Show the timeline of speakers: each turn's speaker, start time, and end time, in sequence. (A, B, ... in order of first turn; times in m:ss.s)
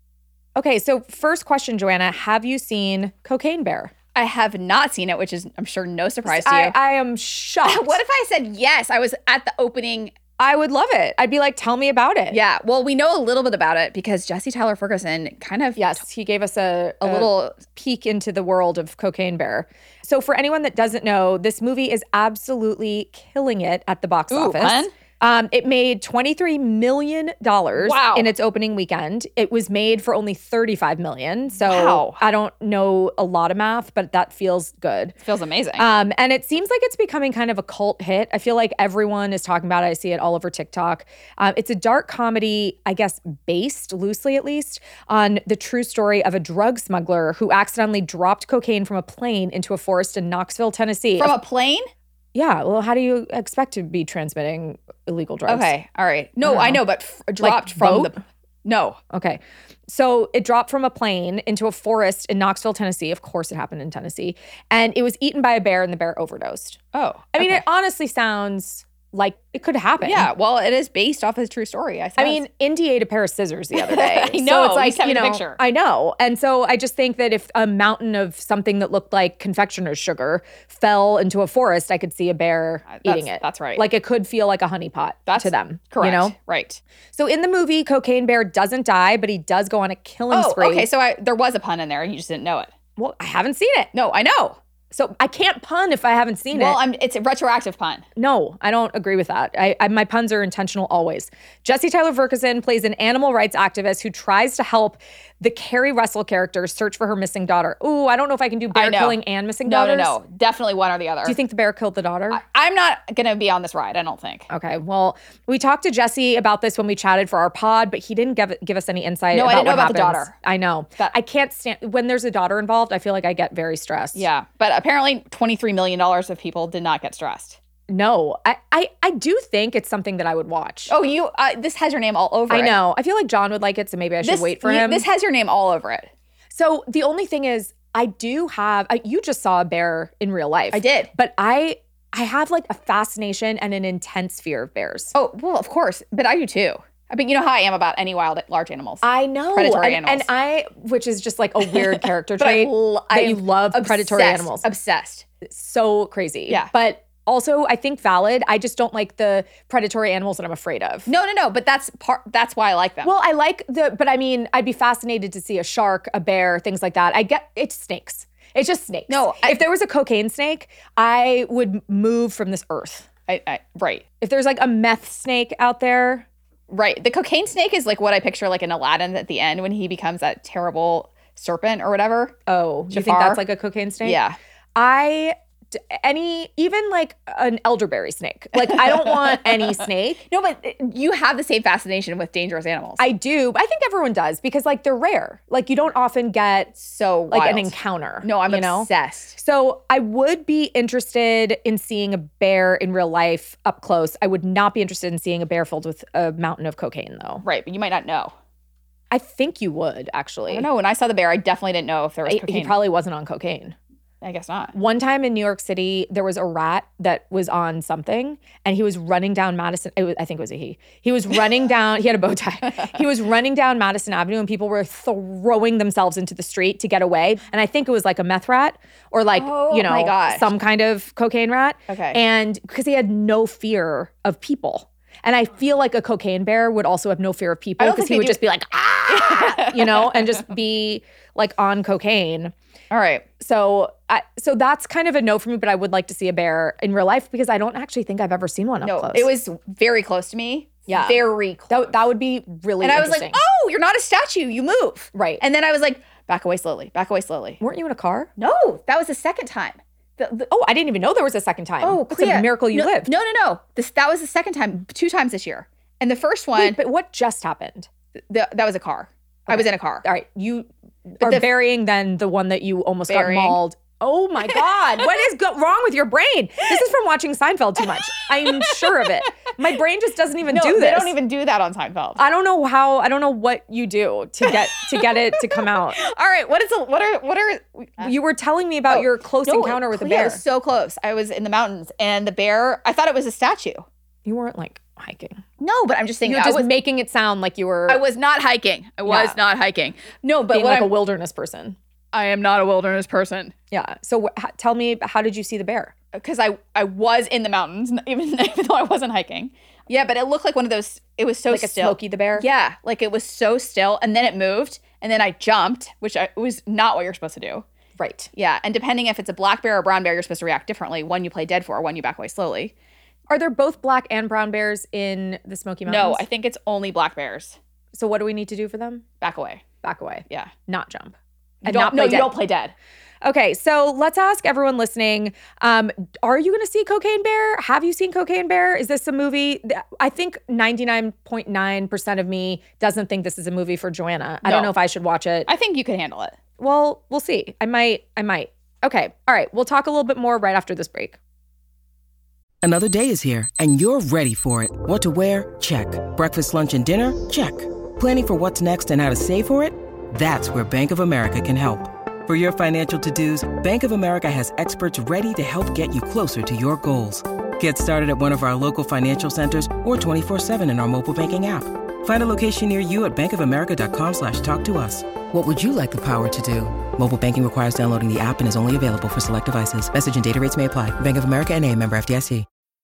0:00.6-0:03.9 A
0:04.2-0:06.8 B
0:06.2-0:08.0 A
0:07.6-0:10.2 B
0:10.4-0:12.4 A
0:12.3-0:16.0 B
0:15.8-0:35.2 A
0:17.0-0:17.6 B
0:24.3-0:24.9 B
0:27.8-0:28.3 B
0:31.6-0:32.2 B
0:35.2-0:35.9 B
0:35.8-0:51.4 A
0:51.2-0:51.9 B
0:52.3-0:55.7 A
0:55.5-0:59.0 B
0:56.4-0:56.8 A
0:57.4-0:58.2 A
0:59.1-1:06.8 A
1:06.9-1:07.6 B
1:07.3-1:10.3 A
1:10.0-1:12.4 B
1:12.2-1:26.3 A
1:13.8-1:15.6 B
1:22.9-1:23.8 B
1:25.3-1:26.8 B
1:27.1-1:30.9 A
1:30.3-1:32.7 B
1:33.0-1:33.9 A
1:33.9-1:34.6 B
1:34.9-1:36.8 A
1:36.5-1:38.1 B
1:38.2-1:50.2 A
1:48.7-1:51.4 B
1:51.2-1:52.4 A
1:52.3-1:54.5 B
1:54.5-2:04.2 A
1:59.3-2:00.3 B
2:04.2-2:07.6 B
2:07.9-2:10.9 A
2:10.9-2:12.8 B
2:12.5-2:15.0 A
2:14.2-2:16.1 B
2:16.5-2:25.1 A
2:20.7-2:21.1 B
2:25.1-2:30.3 B
2:29.0-2:34.7 A
2:31.7-2:35.2 B
2:35.4-2:41.1 A
2:41.1-2:43.1 B
2:43.0-2:53.1 A
2:49.1-2:49.6 B
2:53.3-2:54.0 B
2:54.2-2:56.2 A
2:56.7-3:02.4 B
3:02.5-3:04.2 A
3:02.9-3:03.4 B
3:04.0-3:04.4 B
3:04.8-3:10.2 A
3:08.6-3:09.4 B
3:10.3-3:13.0 B
3:13.0-3:16.8 A
3:16.7-3:19.4 B
3:17.3-3:27.4 A
3:27.4-3:28.3 B
3:29.1-3:30.7 A
3:30.5-3:32.8 B
3:32.2-3:33.8 A
3:34.2-3:34.7 B
3:34.7-4:02.5 A
3:49.4-3:50.5 B
3:51.9-3:52.2 B
3:57.8-3:58.4 B
3:59.1-4:00.4 B
4:02.9-4:03.2 B
4:03.4-4:09.3 A
4:08.8-4:12.0 B
4:10.9-4:13.4 A
4:12.8-4:17.6 B
4:15.1-4:15.4 A
4:17.6-4:18.3 A
4:18.4-4:20.4 B
4:20.4-4:23.1 A
4:21.8-4:26.8 B
4:26.6-4:27.9 A
4:28.3-4:30.0 B
4:29.5-4:41.2 A
4:31.2-4:31.5 B
4:33.1-4:33.6 B
4:38.4-4:39.1 B
4:40.5-4:42.2 B
4:42.2-4:46.0 A
4:44.4-4:48.1 B
4:48.0-4:50.4 A
4:48.9-4:53.9 B
4:54.2-4:55.4 A
4:55.6-4:56.7 B
4:56.2-4:58.0 A
4:57.9-5:01.0 B
4:59.0-4:59.4 A
5:00.4-5:01.8 A
5:02.1-5:03.5 B
5:03.7-5:05.9 A
5:06.1-5:17.6 B
5:11.5-5:12.4 A
5:18.0-5:18.3 A
5:18.3-5:22.7 B
5:23.3-5:26.2 A
5:25.9-5:27.6 B
5:27.9-5:29.1 A
5:29.2-5:29.6 B
5:29.8-5:32.4 A
5:31.6-5:32.7 B
5:33.2-5:45.5 A
5:44.4-5:44.7 B
5:45.5-5:46.4 B
5:46.6-5:51.2 A
5:52.6-6:22.5 C